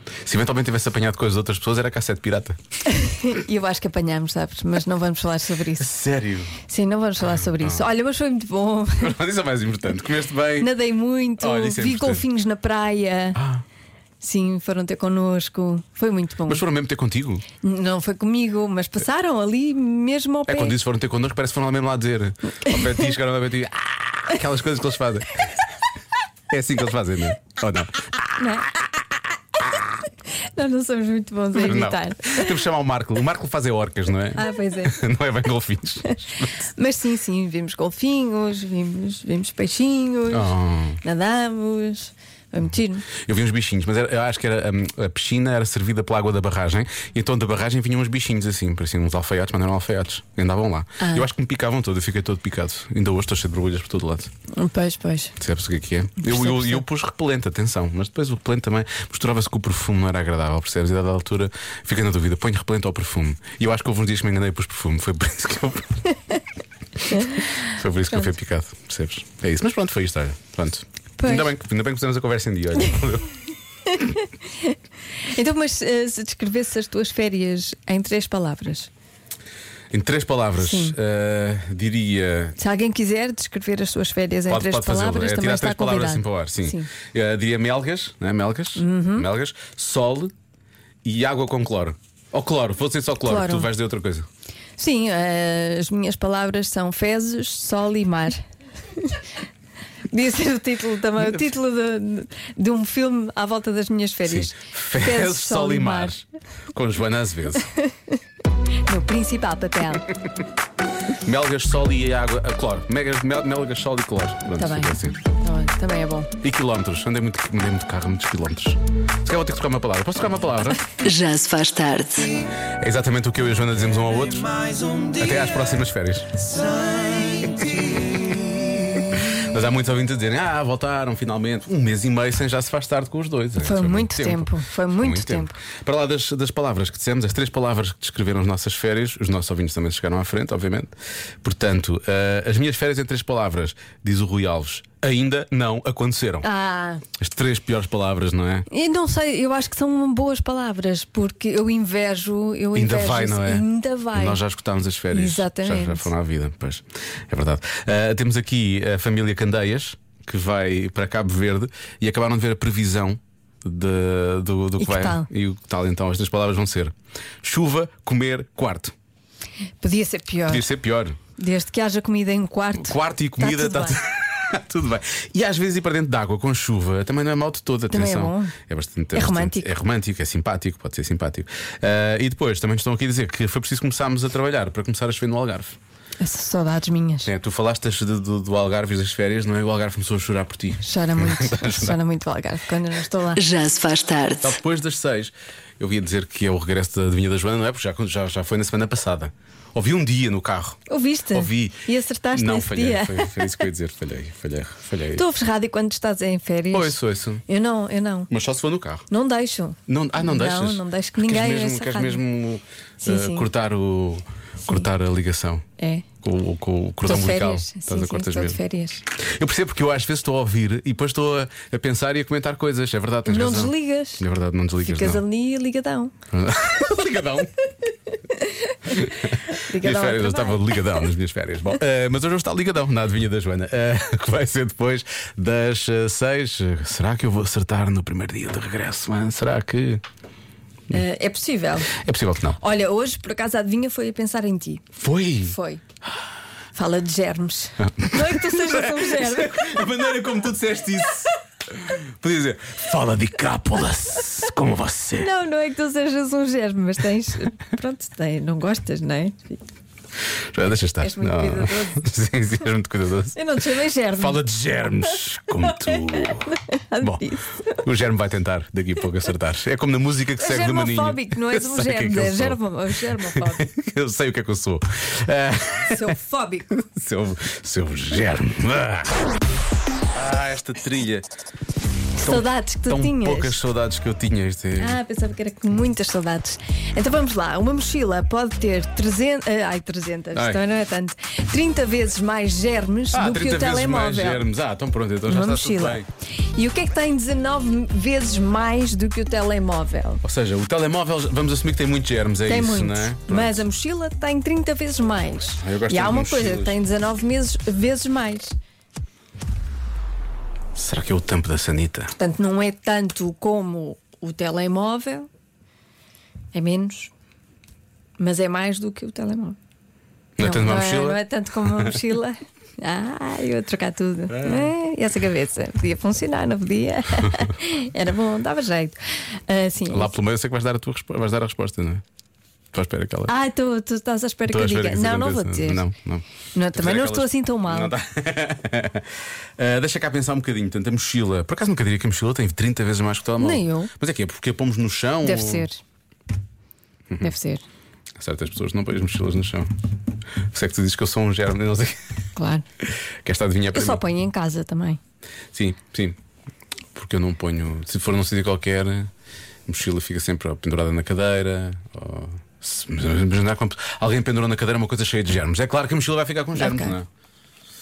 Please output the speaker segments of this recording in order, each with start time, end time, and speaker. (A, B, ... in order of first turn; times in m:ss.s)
0:00.2-0:02.6 A
0:02.9-0:05.9 B
0:05.8-0:06.6 A
0:06.7-0:09.2 B
0:07.2-0:07.9 A
0:09.0-0:10.7 A
0:10.6-0:13.4 B
0:11.4-0:12.3 A
0:13.4-0:13.6 A
0:14.2-0:16.6 B
0:16.5-0:17.4 A
0:17.6-0:20.8 B
0:20.5-0:25.5 A
0:22.6-0:22.9 B
0:26.5-0:28.6 A
0:28.4-0:28.8 B
0:30.4-0:32.6 B
0:31.5-0:36.6 A
0:34.3-0:35.0 B
0:36.0-0:43.1 B
0:40.3-0:41.0 A
0:43.2-0:54.3 A
0:51.0-0:51.3 B
0:54.5-0:55.3 B
0:55.4-1:06.0 A
0:56.2-0:56.8 B
1:07.1-1:07.6 B
1:07.6-1:13.3 A
1:11.2-1:11.5 B
1:13.9-1:14.7 B
1:15.3-1:18.9 B
1:19.9-1:22.6 A
1:20.6-1:21.0 B
1:22.6-1:26.9 B
1:24.5-1:30.3 A
1:28.8-1:29.3 B
1:31.0-1:34.3 A
1:33.2-1:33.7 B
1:34.8-1:38.4 B
1:40.1-1:46.1 B
1:44.2-1:47.7 A
1:48.9-1:50.1 B
1:51.2-1:55.2 A
1:54.6-1:56.3 B
1:56.4-2:00.8 A
2:01.0-2:02.3 C
2:02.8-2:26.5 A
2:13.6-2:15.6 B
2:26.4-2:27.0 B
2:27.2-2:28.7 A
2:28.7-2:34.4 B
2:32.8-2:48.9 A
2:35.1-2:36.1 B
2:44.8-2:45.3 B
2:49.8-2:50.7 B
2:50.5-2:51.2 A
2:51.4-2:54.0 B
2:52.8-3:05.8 A
2:57.9-2:58.6 B
2:59.1-2:59.7 B
3:06.2-3:07.3 B
3:07.2-3:12.0 A
3:10.8-3:13.4 B
3:13.4-3:14.5 C
3:14.4-3:20.8 A
3:20.9-3:23.6 B
3:21.3-3:25.2 A
3:25.2-3:28.3 B
3:26.7-3:27.4 A
3:28.3-3:29.1 A
3:29.1-3:32.2 B
3:29.9-3:35.6 A
3:33.0-3:33.5 B
3:35.8-3:36.1 B
3:36.2-3:38.6 A
3:37.0-3:39.0 B
3:39.2-3:45.2 A
3:43.3-3:44.2 B
3:44.8-3:46.1 B
3:46.3-3:47.5 A
3:48.3-3:51.1 B
3:48.9-4:00.0 A
4:00.9-4:02.0 B
4:01.9-4:02.6 A
4:02.6-4:04.9 B
4:05.0-4:05.6 A
4:05.5-4:05.8 B
4:06.8-4:09.9 B
4:07.8-4:15.3 A
4:15.2-4:19.6 B
4:20.5-4:23.4 A
4:21.0-4:22.0 B
4:23.4-4:24.4 B
4:24.1-4:32.6 A
4:25.6-4:27.8 B
4:30.4-4:33.7 B
4:33.1-4:36.2 A
4:35.9-4:36.7 B
4:36.7-4:39.2 A
4:40.1-4:41.3 A
4:42.2-4:43.6 B
4:42.2-4:45.0 A
4:44.8-4:54.5 B
4:50.3-4:50.6 A
4:53.1-4:56.1 A
4:55.3-4:56.0 B
4:56.5-5:00.2 B
5:00.2-5:03.6 A
5:02.5-5:08.6 B
5:05.6-5:06.8 A
5:10.8-5:12.1 A
5:12.2-5:15.3 B
5:16.5-5:17.1 B
5:18.2-5:19.6 B
5:20.4-5:22.0 A
5:20.4-5:30.1 B
5:24.3-5:24.7 A
5:29.9-5:32.0 A
5:32.7-5:33.3 A
5:33.3-5:35.8 B
5:34.5-5:45.7 A
5:36.5-5:38.0 B
5:43.4-5:43.9 B
5:45.2-5:45.8 B
5:47.2-5:47.6 B
5:48.2-5:49.7 A
5:50.5-5:52.0 A
5:52.4-5:52.6 B
5:53.2-5:54.0 A
5:53.7-5:55.0 B
5:55.5-5:56.2 A
5:56.9-5:59.1 A
5:59.7-6:07.1 A
6:06.6-6:07.0 B